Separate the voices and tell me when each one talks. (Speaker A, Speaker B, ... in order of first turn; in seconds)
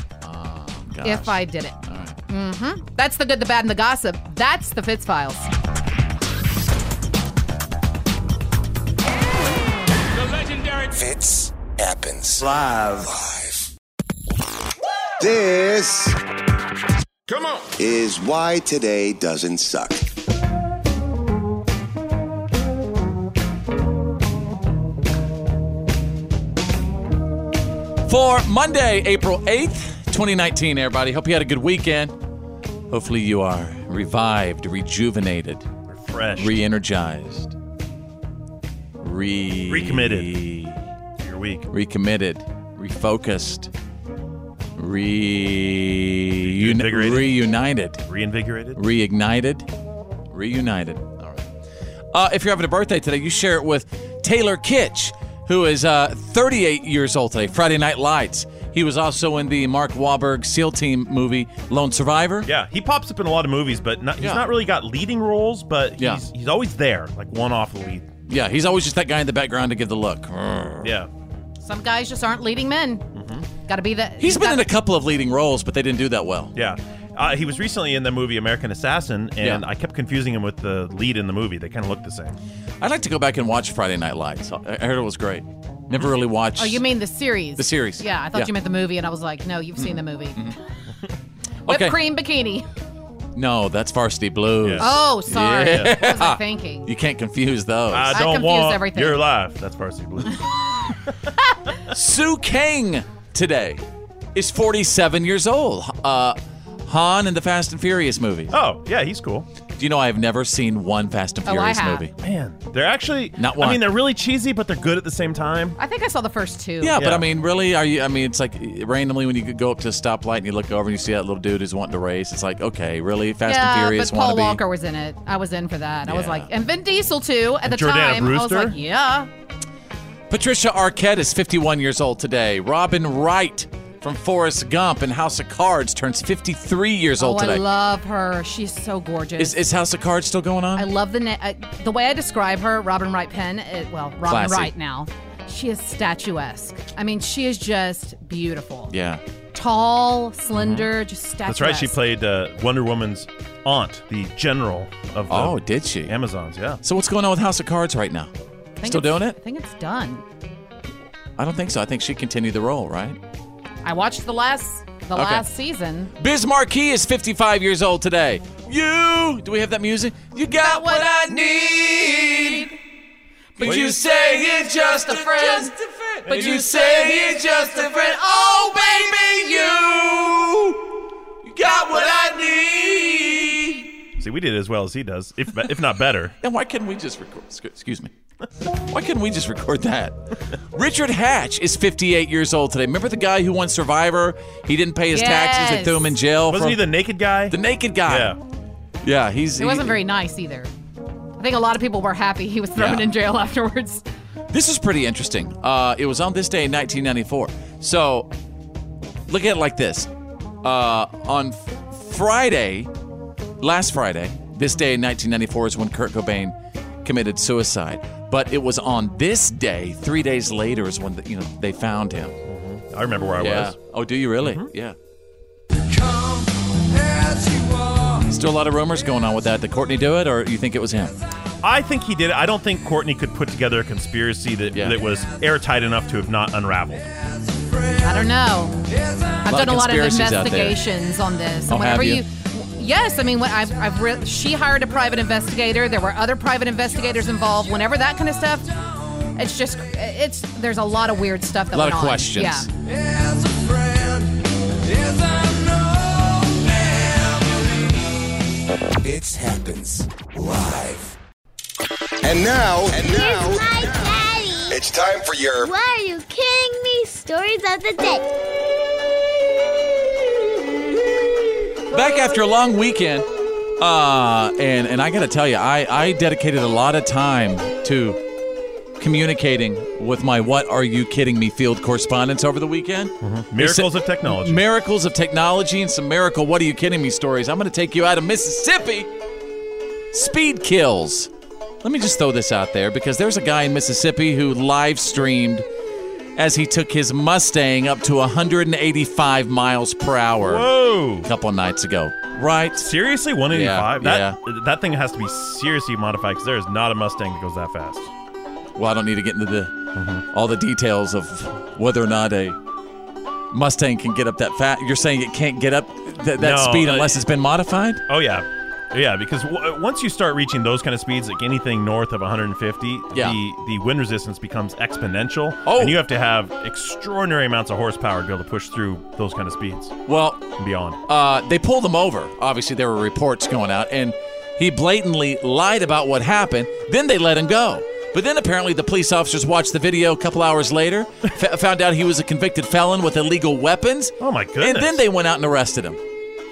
Speaker A: 0.2-2.2, 28.1-32.1, 32.9-35.6, 36.4-37.5, 39.0-40.8, 41.7-43.7, 44.8-48.0, 48.8-49.7, 50.3-51.4, 52.1-62.5, 64.2-64.5, 66.0-66.2, 68.3-70.9, 74.2-76.5, 82.8-86.8, 87.6-88.5, 89.8-90.6, 91.7-92.0, 93.3-98.2, 101.9-103.8, 104.3-108.5, 109.8-112.1, 113.4-113.9, 116.8-124.6, 126.1-126.5, 130.3-137.6, 139.4-140.9, 144.3-144.7, 148.9-149.2, 155.3-156.1, 156.8-158.3, 158.8-159.4, 161.4-163.2, 165.1-165.4, 166.2-172.7, 173.6-180.8, 181.4-183.9, 186.4-188.1, 188.9-190.2, 190.7-196.9, 197.5-198.3, 199.0-200.0, 202.8-203.1, 204.5-208.3, 209.3-210.1, 210.6-212.9, 213.6-222.4, 223.4-224.9, 228.2-231.1, 234.7-235.0, 239.4-240.8, 241.7-242.2, 251.7-252.7, 271.9-273.3, 273.8-278.2, 279.0-289.1, 290.1-291.3, 291.8-295.6, 296.4-300.7, 301.2-302.9, 303.5-304.4, 308.8-309.7, 310.3-312.6, 313.5-318.0, 323.1-323.4, 325.6-326.0, 330.1-330.4, 331.1-346.0
Speaker B: 1.0-1.8, 2.3-5.5, 71.6-73.0, 73.7-74.7, 86.6-90.4, 91.7-92.6, 94.8-96.9, 98.1-99.2, 111.5-112.1, 115.8-117.0, 123.5-129.3, 137.2-139.6, 140.8-148.9, 149.5-151.9, 158.8-160.2, 163.8-166.1, 170.6-171.1, 175.0-175.7, 195.1-196.1, 199.6-200.7, 201.4-204.0, 238.0-238.8, 239.4-248.7, 249.4-252.7
Speaker C: 10.8-13.7, 15.2-16.2, 17.3-20.0, 259.0-261.1, 262.2-264.0, 264.7-265.7
Speaker D: 35.9-36.6, 39.7-40.3, 41.2-41.7, 46.5-47.4, 48.1-48.8, 62.5-68.1, 70.8-71.1, 73.2-73.4, 76.5-82.4, 94.6-94.9, 97.9-100.5, 108.5-109.5, 112.2-115.8, 117.0-117.2, 127.6-128.8, 150.6-150.8, 151.4-156.8, 173.6-174.0, 176.3-176.6, 184.2-186.3, 196.5-197.6, 198.1-198.4, 222.5-223.7, 224.4-224.7, 231.6-237.1, 283.2-284.6, 300.4-301.3, 302.8-308.1, 309.9-310.2, 316.4-317.2, 318.1-329.9, 330.6-331.0, 344.2-345.0
Speaker E: 262.9-264.8, 265.6-268.2